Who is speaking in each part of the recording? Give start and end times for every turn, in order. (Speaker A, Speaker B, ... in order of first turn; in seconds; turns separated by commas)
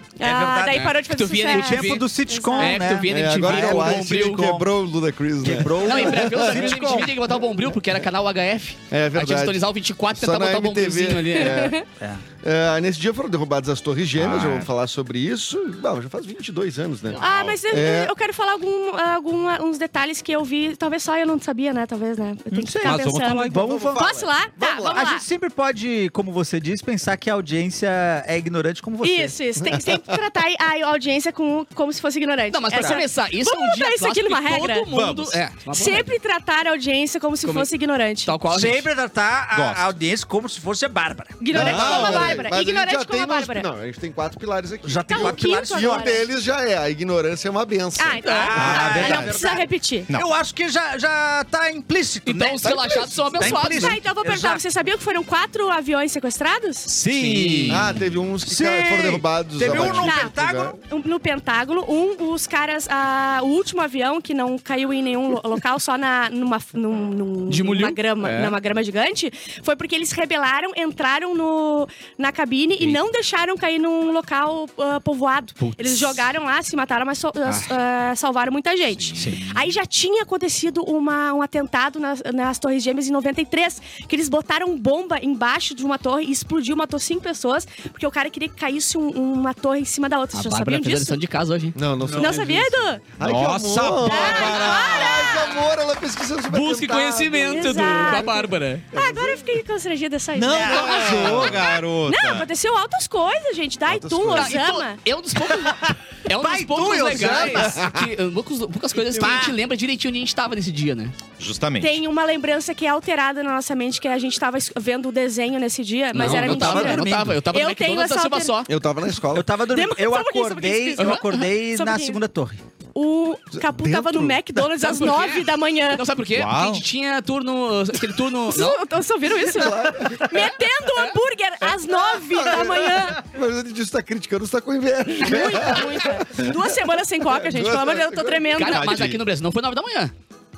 Speaker A: 0.2-2.9, Speaker B: 0.2-4.7, Speaker C: 0.7-4.5, Speaker D: 3.0-7.1, Speaker B: 5.4-7.2, Speaker C: 5.8-11.7, Speaker D: 8.9-11.8, Speaker A: 11.4-11.8, Speaker D: 12.4-18.1, Speaker E: 14.2-14.7, Speaker E: 17.1-17.6, Speaker A: 17.2-25.2, Speaker B: 22.5-29.4, Speaker E: 22.8-23.6, Speaker D: 23.5-25.0, Speaker A: 29.0-34.9, Speaker D: 29.6-30.1, Speaker C: 32.5-36.1, Speaker B: 32.7-33.0, Speaker E: 34.9-35.4, Speaker A: 35.7-38.4, Speaker C: 37.4-37.7, Speaker C: 38.2-38.9, Speaker B: 38.5-41.4, Speaker E: 39.5-39.9, Speaker A: 41.4-43.6, Speaker D: 41.5-49.3, Speaker E: 41.5-42.4, Speaker B: 44.8-46.2, Speaker A: 45.1-46.2, Speaker A: 48.0-50.1, Speaker C: 48.2-48.7, Speaker B: 48.4-54.6, Speaker E: 48.5-49.4, Speaker C: 52.2-54.0, Speaker D: 52.6-53.5, Speaker A: 53.4-56.9, Speaker E: 56.9-58.0, Speaker C: 57.1-57.9, Speaker D: 57.7-60.8, Speaker B: 58.4-60.8, Speaker A: 59.8-91.2, Speaker C: 67.5-68.5, Speaker C: 75.6-76.2, Speaker B: 79.2-79.5, Speaker C: 90.3-91.8, Speaker D: 91.7-98.3, Speaker A: 92.2-93.0, Speaker E: 93.2-95.3, Speaker A: 94.0-95.7, Speaker C: 96.5-98.8, Speaker A: 97.5-105.0, Speaker D: 98.9-99.5, Speaker E: 100.3-102.5, Speaker B: 100.5-101.5, Speaker D: 100.7-101.6, Speaker D: 103.9-104.6, Speaker C: 104.3-111.1, Speaker B: 105.6-107.8, Speaker D: 107.2-107.9, Speaker B: 109.1-109.5, Speaker E: 111.4-112.0, Speaker A: 111.8-118.6, Speaker C: 116.1-118.7, Speaker B: 116.1-117.4, Speaker D: 118.7-119.6, Speaker B: 119.3-122.6, Speaker A: 119.7-122.2, Speaker C: 121.0-121.4, Speaker A: 122.9-126.0, Speaker D: 123.5-124.4, Speaker C: 124.8-128.8, Speaker E: 126.3-126.8, Speaker A: 128.5-133.2, Speaker D: 129.5-130.4, Speaker D: 131.9-136.5, Speaker A: 135.2-139.1, Speaker C: 135.3-135.8, Speaker D: 137.2-138.5, Speaker C: 138.6-140.1, Speaker E: 138.7-139.2